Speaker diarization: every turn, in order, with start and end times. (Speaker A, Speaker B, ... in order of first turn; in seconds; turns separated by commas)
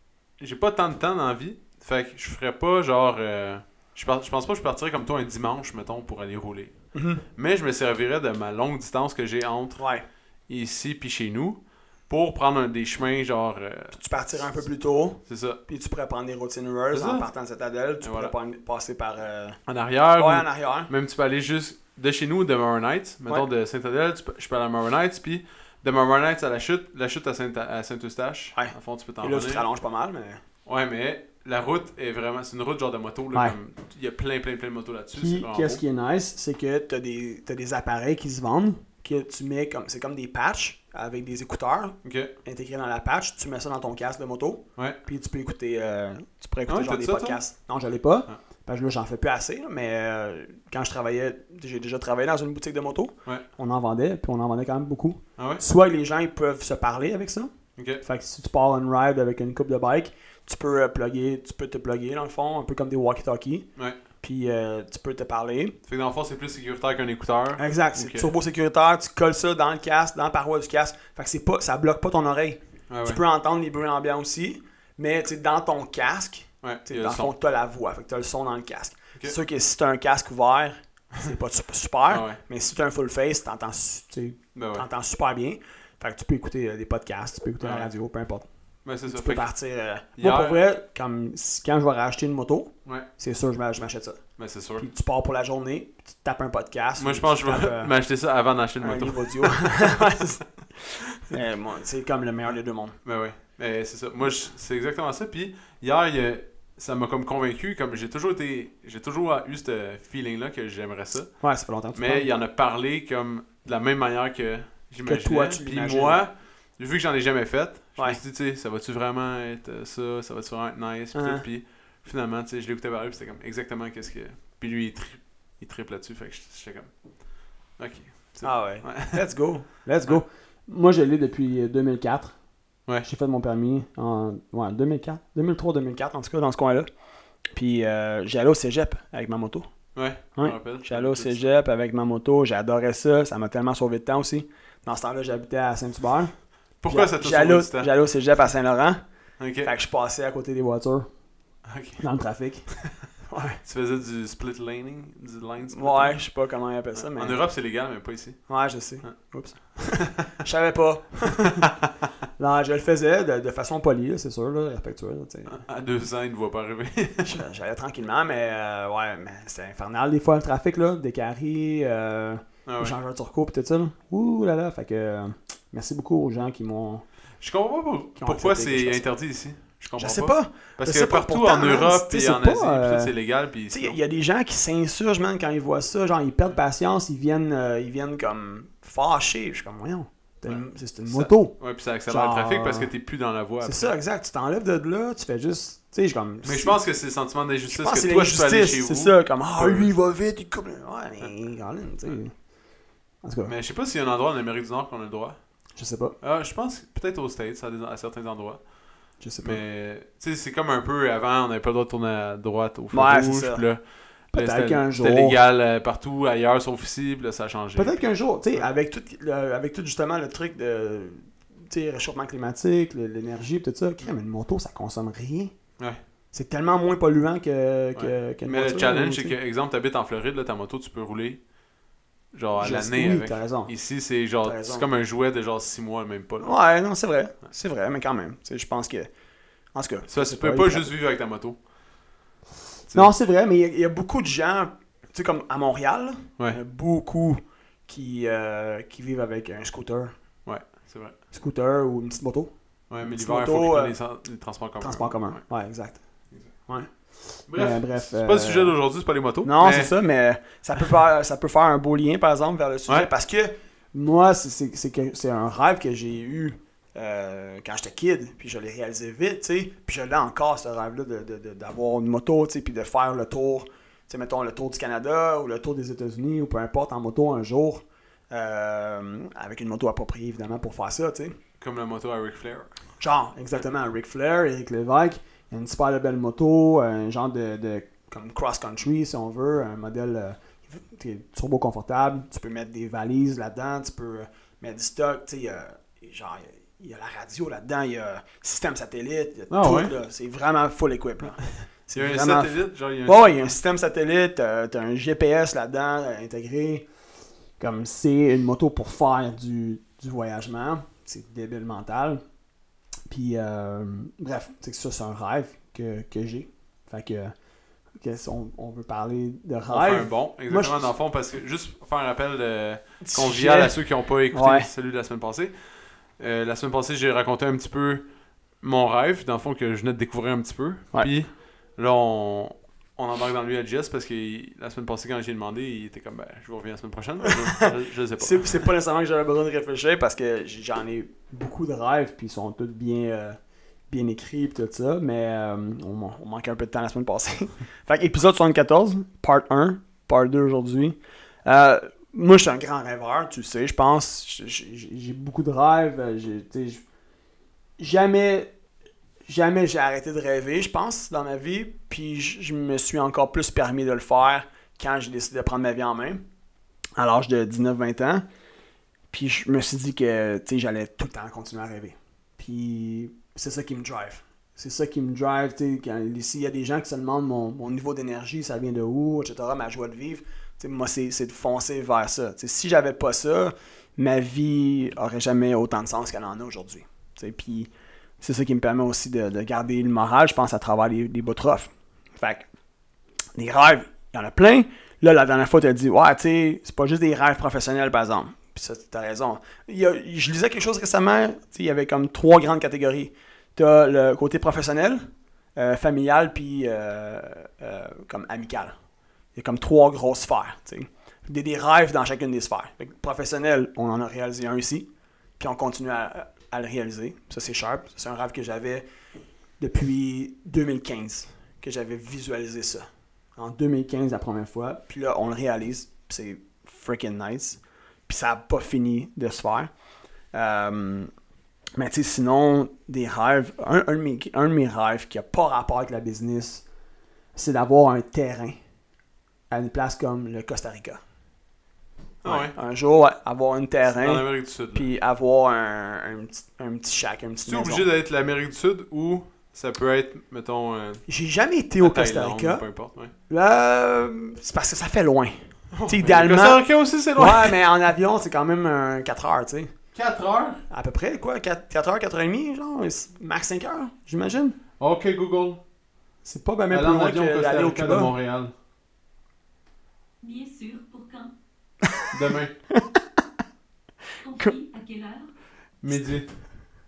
Speaker A: 0.3-15.6, Speaker B: 6.9-7.2, Speaker B: 9.8-10.1, Speaker B: 13.9-20.9, Speaker A: 16.9-17.3, Speaker A: 18.0-18.3, Speaker A: 19.7-29.6, Speaker B: 28.5-30.4, Speaker A: 30.6-35.8, Speaker B: 35.1-65.8, Speaker A: 42.0-42.3, Speaker A: 46.7-47.4, Speaker A: 55.4-55.6, Speaker A: 57.8-58.0, Speaker A: 65.8-68.3, Speaker B: 67.6-97.9, Speaker A: 72.9-73.2, Speaker A: 76.6-77.3, Speaker A: 82.1-82.4, Speaker A: 84.5-84.9, Speaker A: 87.6-87.9, Speaker A: 88.8-89.5, Speaker A: 90.1-90.6, Speaker A: 94.4-94.9, Speaker A: 97.0-99.9, Speaker B: 98.8-103.0, Speaker A: 103.0-129.3, Speaker B: 111.4-112.3, Speaker B: 115.0-116.2, Speaker B: 121.1-121.5, Speaker B: 128.4-136.9, Speaker B: 137.4-151.2, Speaker A: 139.9-141.5, Speaker A: 146.8-147.9, Speaker A: 149.4-149.7, Speaker A: 151.7-152.1, Speaker B: 152.0-153.6, Speaker A: 153.6-156.3, Speaker B: 155.7-157.5, Speaker A: 156.9-159.3, Speaker B: 158.5-161.7, Speaker B: 162.4-165.6, Speaker A: 165.5-167.4, Speaker B: 167.2-177.1, Speaker A: 172.7-173.0, Speaker A: 177.4-184.0, Speaker B: 178.2-179.1, Speaker B: 180.0-192.9, Speaker A: 190.5-193.9, Speaker B: 193.6-196.8, Speaker A: 196.4-199.9, Speaker B: 197.7-202.5, Speaker B: 203.2-203.6, Speaker A: 203.5-218.1, Speaker B: 205.8-206.2, Speaker B: 209.2-209.6, Speaker B: 212.9-215.4, Speaker B: 217.8-225.7, Speaker B: 226.3-229.3, Speaker A: 227.9-231.6, Speaker A: 232.3-236.6, Speaker B: 232.6-234.9, Speaker B: 236.4-239.1, Speaker B: 239.7-240.9, Speaker A: 240.1-241.7, Speaker A: 242.8-243.1, Speaker B: 242.9-250.3, Speaker A: 250.4-251.2, Speaker B: 251.3-254.2, Speaker A: 252.9-255.5, Speaker B: 254.8-258.8, Speaker A: 256.3-256.6, Speaker A: 257.4-259.9, Speaker B: 259.4-281.4, Speaker A: 281.6-282.8, Speaker B: 283.0-306.9, Speaker A: 299.5-299.9, Speaker A: 301.9-303.5, Speaker B: 307.6-312.2, Speaker B: 313.1-320.9, Speaker A: 319.7-338.5, Speaker B: 323.0-324.7, Speaker B: 337.3-337.7, Speaker B: 338.2-356.8, Speaker B: 357.8-358.5, Speaker B: 359.3-366.2, Speaker B: 367.0-368.2, Speaker B: 369.1-392.5, Speaker B: 393.4-408.8, Speaker B: 409.3-418.9, Speaker B: 419.6-429.7, Speaker B: 430.3-431.1, Speaker B: 431.8-436.7, Speaker B: 437.4-438.6, Speaker B: 439.5-441.0, Speaker A: 442.2-442.6, Speaker B: 442.2-447.9, Speaker A: 444.0-444.9, Speaker A: 447.4-451.1, Speaker B: 451.1-452.7, Speaker A: 451.8-453.1, Speaker B: 453.3-459.8, Speaker A: 455.7-457.5, Speaker A: 459.9-460.6, Speaker B: 460.7-464.6, Speaker A: 464.8-465.6, Speaker B: 466.2-468.1, Speaker A: 466.7-468.5, Speaker C: 470.2-471.3, Speaker A: 472.1-472.6, Speaker C: 474.2-475.3, Speaker A: 475.8-476.5